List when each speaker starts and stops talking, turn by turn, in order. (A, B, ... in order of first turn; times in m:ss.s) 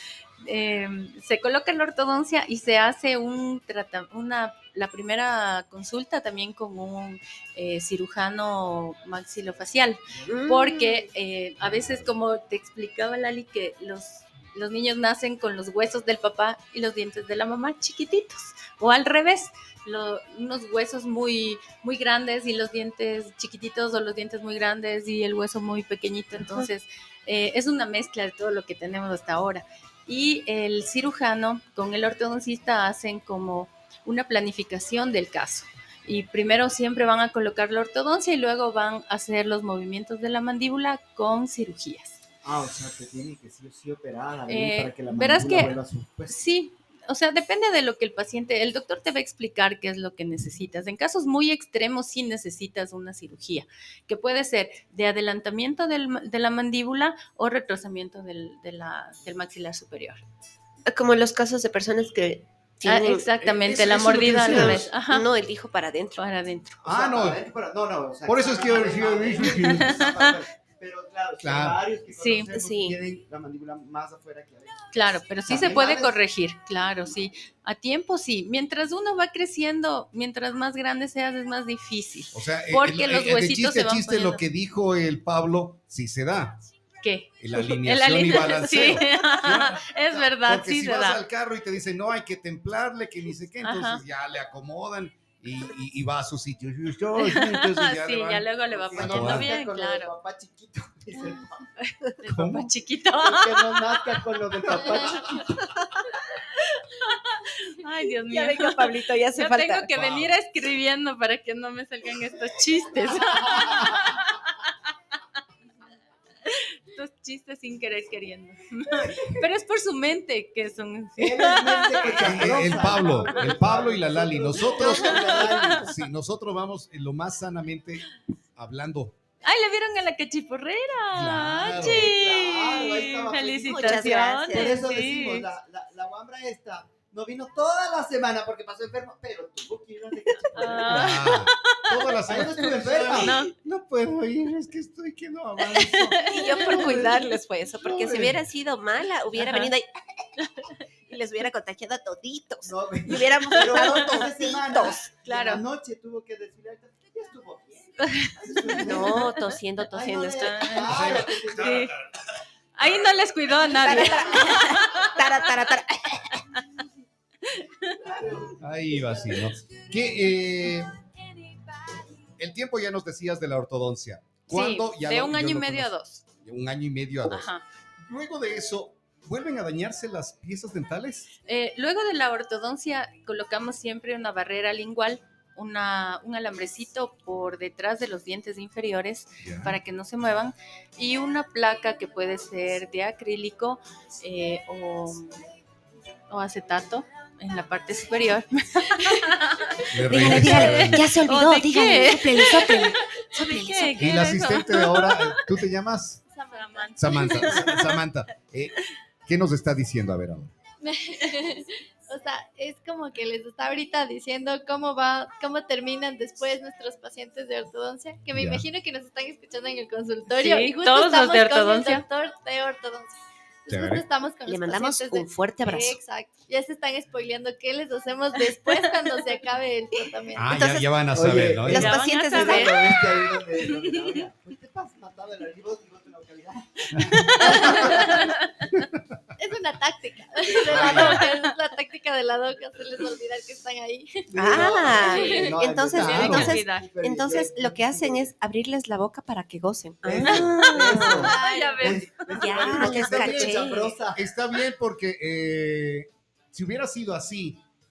0:00.4-0:42.2 A
0:10.1-0:10.4 B
0:10.2-0:11.1 C
0:42.4-0:46.4 B
0:44.5-0:45.8 A
0:46.3-1:00.2 A
1:00.8-1:03.2 C
1:02.8-1:05.3 A
1:03.4-1:04.9 D
1:04.4-1:04.6 B
1:04.5-1:06.2 C
1:06.2-1:06.8 A
1:06.8-1:07.4 D
1:06.8-1:14.8 B
1:08.2-1:10.0 D
1:09.7-1:10.3 A
1:11.4-1:11.8 D
1:12.1-1:12.5 A
1:12.5-1:13.0 C
1:14.9-1:24.4 A
1:15.4-1:16.1 B
1:22.3-1:26.6 D
1:27.0-1:31.2 A
1:27.4-1:39.5 D
1:33.6-1:34.0 A
1:37.2-1:40.1 A
1:38.7-1:41.7 B
1:42.2-1:44.1 A
1:42.2-1:42.7 D
1:43.1-1:45.8 B
1:46.5-1:54.5 A
1:48.3-1:49.9 C
1:49.9-1:50.3 D
1:53.2-1:54.0 B
1:56.4-2:03.5 A
1:59.0-1:59.3 B
2:01.2-2:05.9 B
2:02.1-2:09.2 D
2:04.8-2:05.8 A
2:09.4-2:15.5 A
2:11.1-2:12.1 D
2:11.6-2:21.3 B
2:13.6-2:14.9 C
2:20.5-2:22.1 A
2:20.7-2:26.2 D
2:22.3-2:23.4 B
2:23.2-2:23.5 A
2:25.6-2:27.2 A
2:26.3-2:35.0 C
2:26.8-2:27.2 D
2:27.8-2:28.4 D
2:29.4-2:29.7 A
2:30.4-2:30.7 A
2:32.6-2:39.3 B
2:33.7-2:34.1 A
2:35.2-2:35.6 A
2:38.2-2:39.5 A
2:38.8-2:40.9 C
2:39.9-2:41.8 B
2:40.3-2:41.9 A
2:40.8-2:42.2 D
2:42.8-2:45.5 A
2:43.7-2:46.4 C
2:44.0-2:44.6 B
2:47.4-2:48.0 A
2:48.0-2:49.5 B
2:48.6-2:50.9 D
2:52.4-3:01.3 D
2:54.5-2:56.2 A
2:57.3-2:57.6 A
3:01.4-3:15.5 A
3:09.4-3:09.8 D
3:16.3-3:25.5 A
3:19.9-3:21.0 D
3:20.1-3:24.0 C
3:24.0-3:26.2 D
3:26.3-3:27.8 E
3:26.5-3:28.0 A
3:27.0-3:30.5 D
3:30.8-3:50.6 E
3:38.3-3:38.6 D
3:40.3-3:42.0 A
3:43.7-3:44.0 D
3:44.4-3:46.0 C
3:50.4-3:51.9 D
3:50.5-3:50.9 C
3:51.1-3:58.4 B
3:51.6-3:53.2 C
3:51.7-3:53.1 A
3:53.6-3:53.9 A
3:57.1-3:58.7 A
3:57.7-3:58.2 E
3:59.4-4:05.5 E
4:00.7-4:01.2 D
4:00.8-4:01.1 B
4:00.8-4:01.5 A
4:04.3-4:08.3 B
4:04.4-4:11.3 C
4:05.0-4:06.8 A
4:05.9-4:06.5 D
4:10.0-4:14.2 B
4:10.9-4:12.0 E
4:11.2-4:12.7 A
4:12.3-4:14.0 C
4:12.6-4:17.6 D